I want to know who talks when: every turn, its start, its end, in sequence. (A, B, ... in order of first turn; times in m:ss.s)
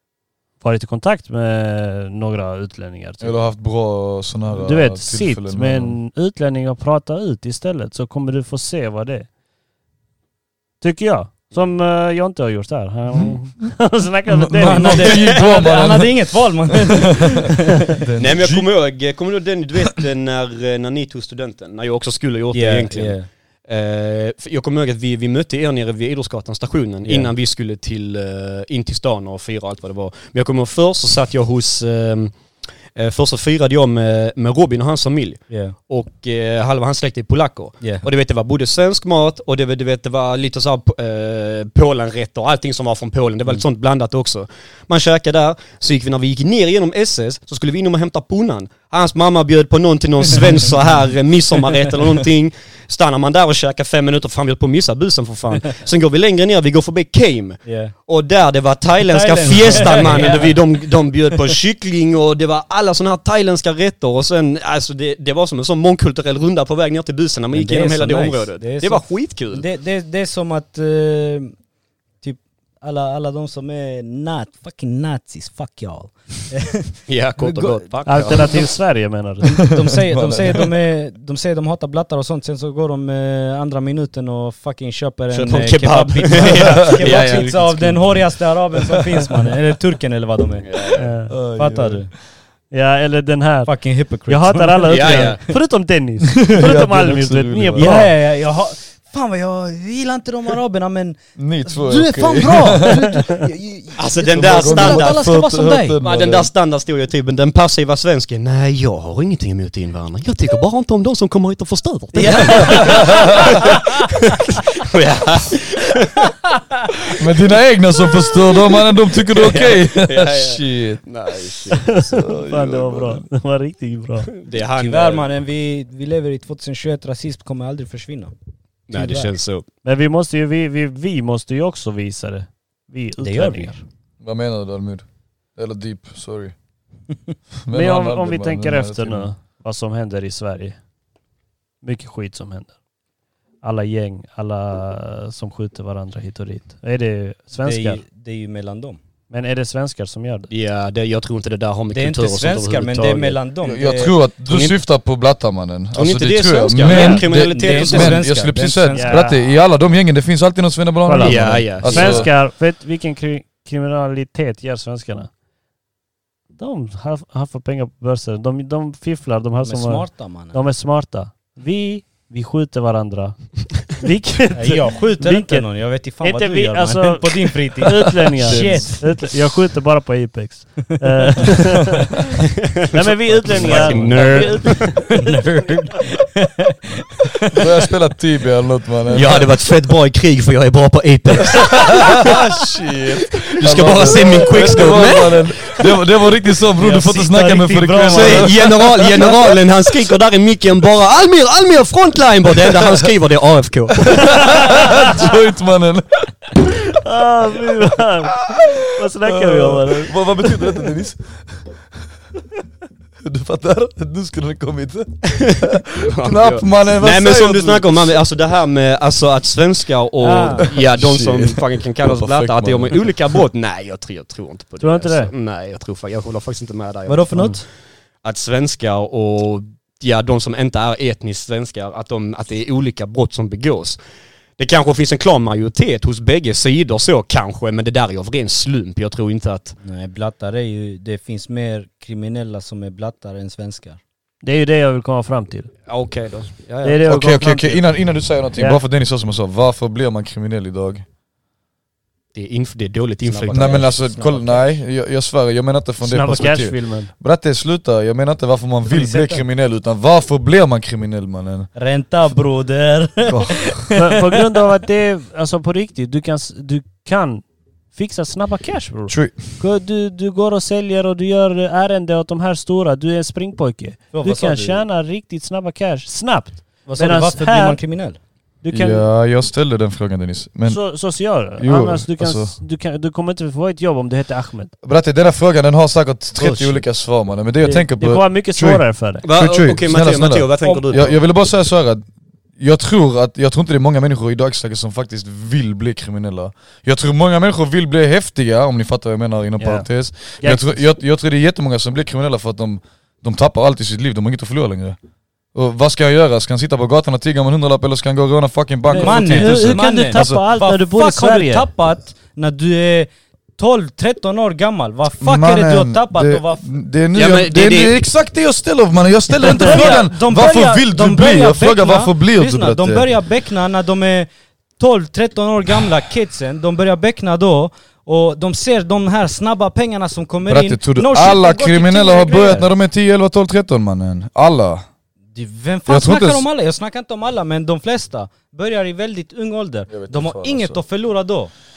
0:00.6-0:03.4 A
0:03.2-0:06.0 B
0:04.5-0:09.3 A
0:10.8-0:15.2 A
0:14.3-0:18.6 B
0:14.6-0:18.0 C
0:18.2-0:23.2 D
0:22.5-0:23.3 C
0:23.7-0:32.3 D
0:27.0-0:27.3 C
0:32.9-1:09.6 D
0:35.5-0:35.7 C
0:57.6-0:57.9 C
0:59.1-1:00.6 C
1:07.5-1:11.5 C
1:12.2-1:18.7 C
1:17.1-1:18.7 D
1:18.0-1:19.6 A
1:19.4-1:30.8 C
1:20.0-1:20.7 B
1:25.3-1:28.0 D
1:26.5-1:27.2 B
1:28.9-1:29.4 B
1:30.6-1:31.1 D
1:30.9-1:31.3 A
1:31.3-1:32.1 B
1:31.4-1:32.1 C
1:32.7-1:38.1 A
1:33.6-1:35.5 C
1:34.9-1:35.4 D
1:36.5-1:38.1 B
1:37.8-1:46.0 C
1:41.4-1:43.0 B
1:43.1-1:43.4 A
1:44.0-1:45.2 D
1:44.3-1:46.5 B
1:46.0-1:56.3 D
1:52.1-1:54.1 C
1:52.4-1:53.5 B
1:56.2-1:56.6 C
1:57.1-2:01.0 B
1:59.3-2:02.0 D
2:01.8-2:04.3 A
2:01.9-2:03.2 B
2:04.4-2:05.3 D
2:04.8-2:08.3 C
2:08.9-2:09.6 D
2:08.9-2:09.3 C
2:09.8-2:13.8 A
2:13.2-2:13.8 C
2:14.2-2:15.0 B
2:15.6-2:16.5 B
2:17.6-2:19.3 B
2:17.7-2:20.8 A
2:21.8-2:22.7 A
2:23.6-2:28.0 A
2:27.6-2:29.0 C
2:29.3-2:30.5 A
2:30.5-2:33.4 D
2:31.9-2:34.2 C
2:33.6-2:42.3 B
2:34.5-2:34.8 D
2:35.9-2:38.2 D
2:36.8-2:39.2 C
2:38.9-2:39.4 A
2:41.0-2:45.3 A
2:41.2-2:42.3 D
2:46.6-3:02.0 A
2:49.6-2:50.6 C
2:54.5-2:59.2 C
2:58.4-2:59.0 B
3:02.7-3:05.0 D
3:02.9-3:05.3 A
3:03.5-3:04.4 C
3:03.8-3:04.3 B
3:05.1-3:07.6 C
3:07.5-3:09.5 B
3:09.1-3:12.4 D
3:11.6-3:19.6 B
3:13.3-3:15.9 D
3:16.8-3:18.4 A
3:18.1-3:24.4 D
3:22.7-3:23.0 B
3:24.0-3:26.6 B
3:24.7-3:25.2 A
3:26.9-3:30.7 A
3:28.5-3:31.6 B
3:33.2-3:37.9 B
3:35.3-3:47.6 D
3:40.2-3:40.7 C
3:40.7-3:43.4 B
3:44.8-3:45.3 A
3:47.1-3:47.6 C
3:48.2-3:54.0 D
3:54.6-3:59.8 D
3:59.8-4:04.0 C
4:04.4-4:05.7 A
4:05.9-4:07.0 D
4:06.8-4:07.8 A
4:07.0-4:11.0 B
4:08.6-4:08.8 A
4:12.3-4:13.9 D
4:13.2-4:14.8 C
4:13.5-4:21.7 B
4:16.0-4:17.1 A
4:18.8-4:19.4 C
4:21.7-4:24.0 C
4:23.2-4:23.9 B
4:24.0-4:37.8 A
4:29.1-4:29.6 B
4:34.1-4:34.8 C
4:36.9-4:38.2 C
4:38.6-4:39.0 A
4:38.7-4:40.8 B
4:40.7-4:44.7 A
4:41.6-4:42.5 B
4:44.8-5:05.0 B
4:46.4-4:46.8 C
4:47.6-4:49.2 A
4:49.2-4:51.2 D
4:59.6-4:59.9 A
5:00.4-5:00.8 A
5:05.5-5:10.4 B
5:08.9-5:11.7 A
5:08.9-5:16.8 C
5:15.2-5:23.1 B
5:17.1-5:18.0 D
5:19.4-5:32.8 C
5:19.4-5:19.9 A
5:30.5-5:34.8 B
5:35.3-5:41.5 C
5:35.9-5:36.4 B
5:39.9-5:40.8 B